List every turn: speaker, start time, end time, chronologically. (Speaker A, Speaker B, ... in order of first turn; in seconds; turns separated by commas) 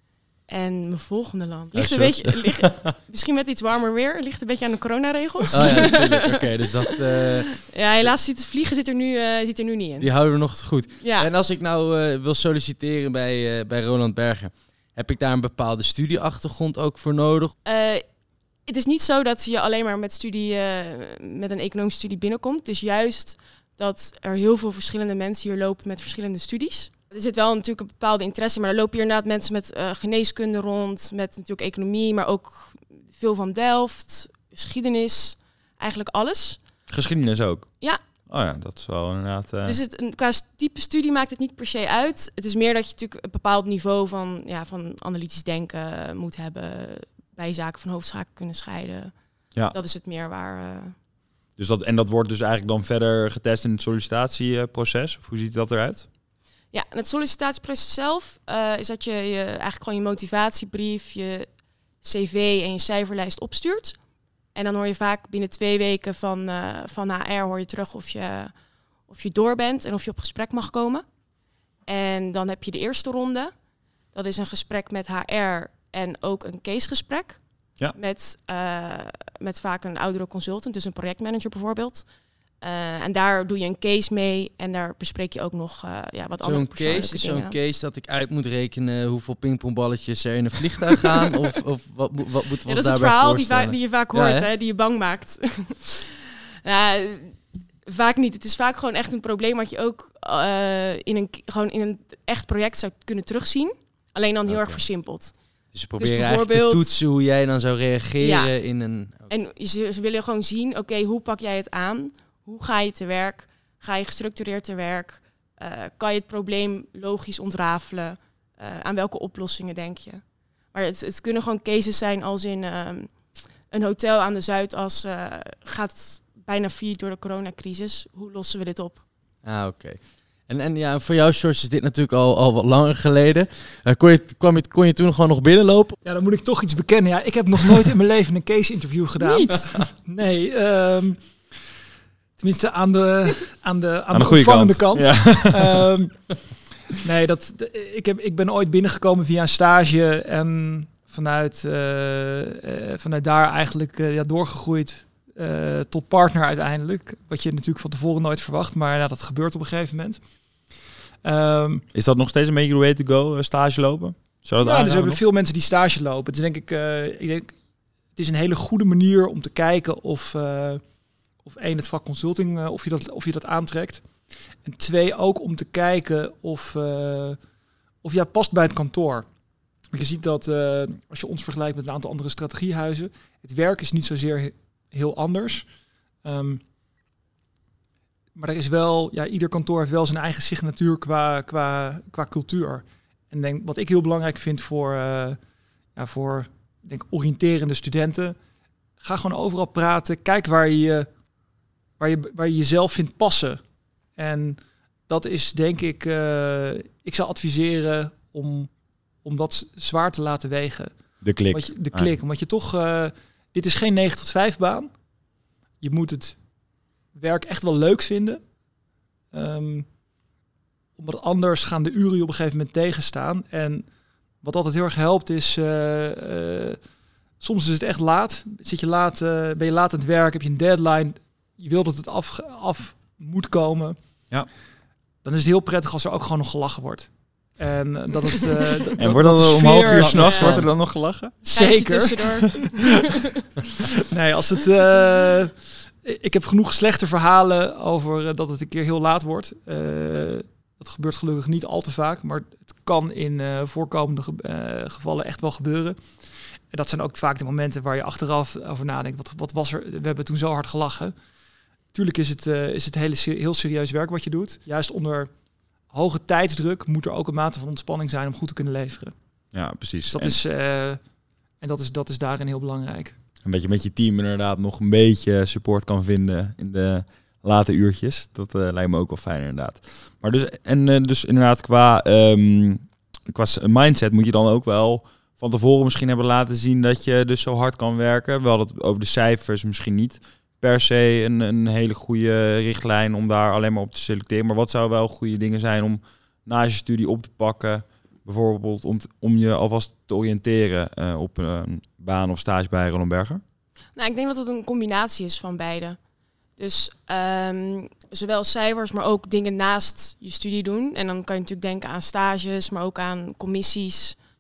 Speaker A: 0.5-10.1, Speaker B: 1.7-2.9, Speaker B: 5.5-7.7, Speaker B: 10.0-17.5, Speaker A: 11.0-11.3, Speaker A: 17.6-18.1, Speaker A: 18.6-36.6, Speaker C: 36.9-39.8, Speaker A: 39.6-49.1, Speaker A: 49.7-51.0, Speaker C: 51.6-56.1, Speaker A: 56.7-61.5, Speaker A: 62.0-64.0, Speaker A: 64.5-68.5, Speaker A: 69.1-71.0, Speaker A: 71.9-73.5, Speaker A: 74.1-77.4, Speaker A: 77.9-82.0, Speaker A: 82.6-87.6, Speaker B: 86.4-94.5, Speaker A: 92.7-105.3, Speaker B: 104.5-104.8, Speaker B: 105.7-109.3, Speaker A: 106.0-106.9, Speaker A: 108.2-108.5, Speaker A: 109.3-129.0, Speaker B: 129.4-135.9, Speaker D: 136.0-141.2, Speaker A: 139.2-139.8, Speaker D: 142.4-146.4, Speaker C: 144.1-145.9, Speaker D: 146.9-160.2, Speaker D: 161.2-161.8, Speaker C: 161.9-165.2, Speaker D: 164.6-167.6, Speaker D: 168.2-170.8, Speaker D: 171.4-174.1, Speaker D: 174.6-177.4, Speaker D: 178.0-179.3, Speaker D: 179.9-185.7, Speaker D: 186.2-186.6, Speaker D: 188.3-195.4, Speaker D: 195.9-198.4, Speaker D: 199.0-201.1, Speaker D: 202.0-203.6, Speaker D: 204.2-214.9, Speaker C: 211.2-212.1, Speaker D: 215.8-216.4, Speaker D: 217.1-218.4, Speaker D: 219.3-219.9, Speaker D: 221.0-223.9, Speaker D: 224.4-226.8, Speaker D: 227.4-234.0, Speaker D: 235.2-240.7, Speaker C: 239.0-241.4, Speaker A: 240.2-240.6, Speaker D: 241.4-242.8, Speaker A: 241.6-243.1, Speaker D: 244.1-256.1, Speaker D: 256.7-261.1, Speaker D: 261.9-265.3, Speaker D: 265.9-269.1, Speaker C: 269.5-270.3, Speaker D: 270.1-271.0, Speaker D: 271.6-273.2, Speaker C: 273.4-303.4, Speaker A: 303.9-306.0, Speaker A: 306.6-314.2